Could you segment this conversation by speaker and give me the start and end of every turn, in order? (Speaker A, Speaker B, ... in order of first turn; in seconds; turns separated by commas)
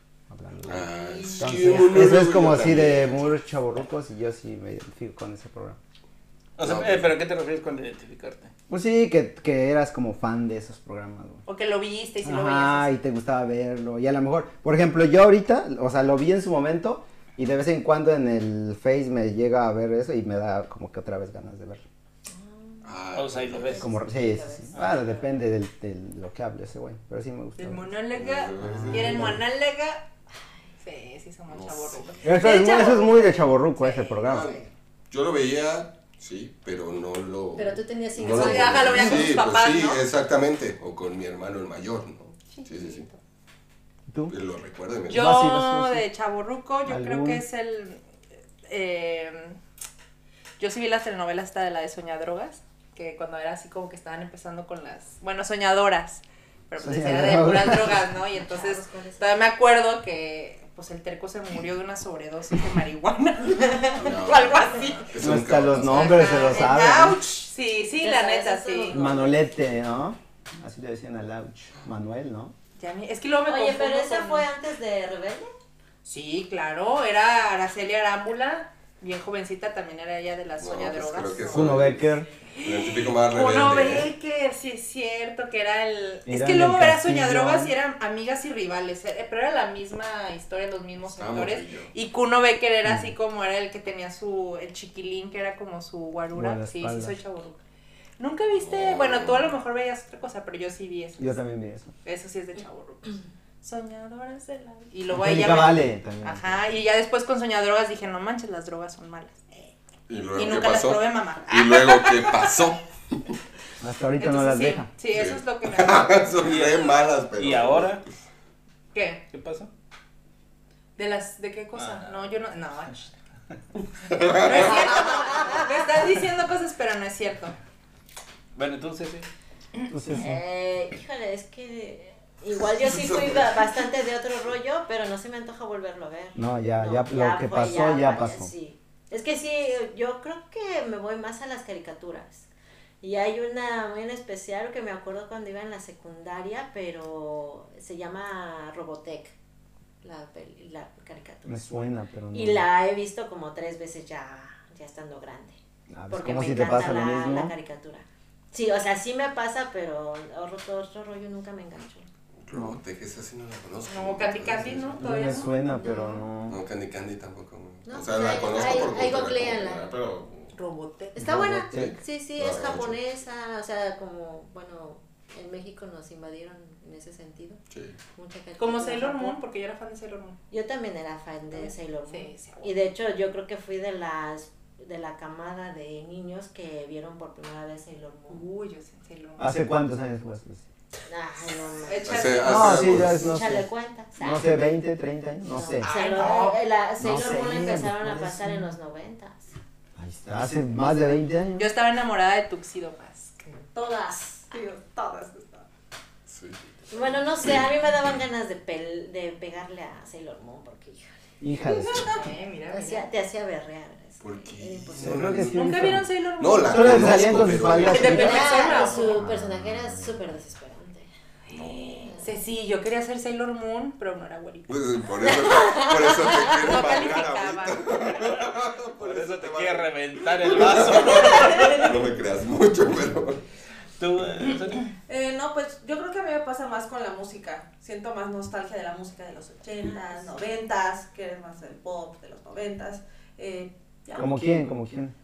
Speaker A: 0.3-5.8, Speaker B: 0.7-3.3, Speaker C: 0.9-2.0, Speaker D: 6.6-8.5, Speaker B: 6.6-7.1, Speaker A: 8.7-11.4, Speaker C: 11.4-13.0, Speaker A: 12.2-21.8, Speaker E: 22.3-24.9, Speaker B: 22.8-23.9, Speaker D: 23.1-23.8, Speaker A: 23.8-27.9, Speaker C: 27.6-30.0, Speaker B: 28.1-29.3, Speaker A: 28.6-29.4, Speaker C: 30.8-34.7, Speaker B: 31.5-32.2, Speaker A: 32.2-34.5, Speaker E: 32.4-33.3, Speaker B: 34.3-34.6, Speaker B: 35.1-43.1, Speaker E: 37.6-39.2, Speaker C: 38.2-40.0, Speaker C: 42.5-43.2, Speaker A: 44.1-44.3, Speaker B: 44.3-45.3, Speaker C: 45.1-48.0, Speaker A: 45.1-46.0, Speaker A: 46.9-47.4, Speaker C: 48.7-49.6, Speaker C: 50.6-65.1, Speaker A: 56.8-58.1, Speaker E: 58.4-59.4, Speaker B: 63.9-66.3, Speaker A: 65.2-67.2, Speaker C: 65.8-69.1, Speaker E: 68.0-69.5, Speaker A: 68.9-72.5, Speaker C: 72.8-74.5, Speaker E: 73.5-75.5, Speaker C: 76.0-81.8, Speaker B: 80.6-84.1, Speaker A: 81.5-82.3, Speaker C: 82.5-97.6, Speaker A: 86.2-87.7, Speaker B: 91.1-91.9, Speaker A: 92.8-93.1, Speaker A: 96.3-97.2, Speaker C: 98.2-101.4, Speaker B: 98.5-99.5, Speaker A: 101.2-101.9, Speaker C: 102.0-109.7, Speaker A: 105.1-106.6, Speaker B: 110.1-113.3, Speaker C: 110.3-112.5, Speaker A: 113.8-114.9, Speaker C: 114.2-116.3, Speaker B: 115.0-118.0, Speaker D: 116.4-118.0, Speaker C: 118.9-119.2, Speaker D: 119.3-119.7, Speaker C: 121.0-123.1, Speaker D: 121.8-122.4, Speaker B: 124.0-125.0, Speaker C: 124.4-127.5, Speaker D: 128.6-129.3, Speaker A: 129.9-130.4, Speaker E: 130.2-142.4, Speaker B: 132.9-133.4, Speaker A: 136.3-138.5, Speaker E: 143.0-149.3, Speaker E: 150.0-155.6, Speaker A: 151.5-152.7, Speaker A: 155.9-157.5, Speaker E: 156.1-162.1, Speaker B: 162.4-165.2, Speaker A: 162.5-162.8, Speaker C: 163.9-165.5, Speaker A: 165.0-166.6, Speaker E: 165.7-166.2, Speaker B: 166.5-170.5, Speaker E: 167.8-169.8, Speaker C: 170.5-171.2, Speaker E: 171.1-177.6, Speaker A: 171.2-172.0, Speaker B: 171.7-173.0, Speaker B: 177.7-178.0, Speaker E: 178.1-179.4, Speaker C: 178.6-180.4, Speaker E: 180.5-188.4, Speaker C: 181.6-182.8, Speaker C: 188.3-189.6, Speaker A: 189.4-190.6, Speaker E: 191.1-194.7, Speaker C: 191.8-193.0, Speaker B: 192.0-193.3, Speaker A: 192.4-195.9, Speaker E: 195.5-199.5, Speaker C: 195.8-196.6, Speaker F: 195.9-196.4, Speaker A: 197.0-198.7, Speaker A: 199.9-201.7, Speaker C: 201.6-203.5, Speaker F: 203.7-205.7, Speaker B: 206.3-206.6, Speaker E: 206.9-211.1, Speaker B: 207.4-207.7, Speaker A: 211.4-212.1, Speaker F: 211.7-212.3, Speaker C: 211.9-213.1, Speaker E: 212.7-215.5, Speaker B: 214.2-218.6, Speaker A: 215.0-216.1, Speaker C: 215.5-219.3, Speaker A: 216.7-220.2, Speaker E: 217.8-221.1, Speaker B: 221.5-222.1, Speaker E: 221.8-222.3, Speaker C: 222.2-224.7, Speaker B: 224.7-233.4, Speaker E: 225.2-226.9, Speaker C: 226.6-227.8, Speaker D: 229.0-231.9, Speaker D: 234.0-234.9, Speaker F: 235.1-244.5, Speaker A: 244.2-245.1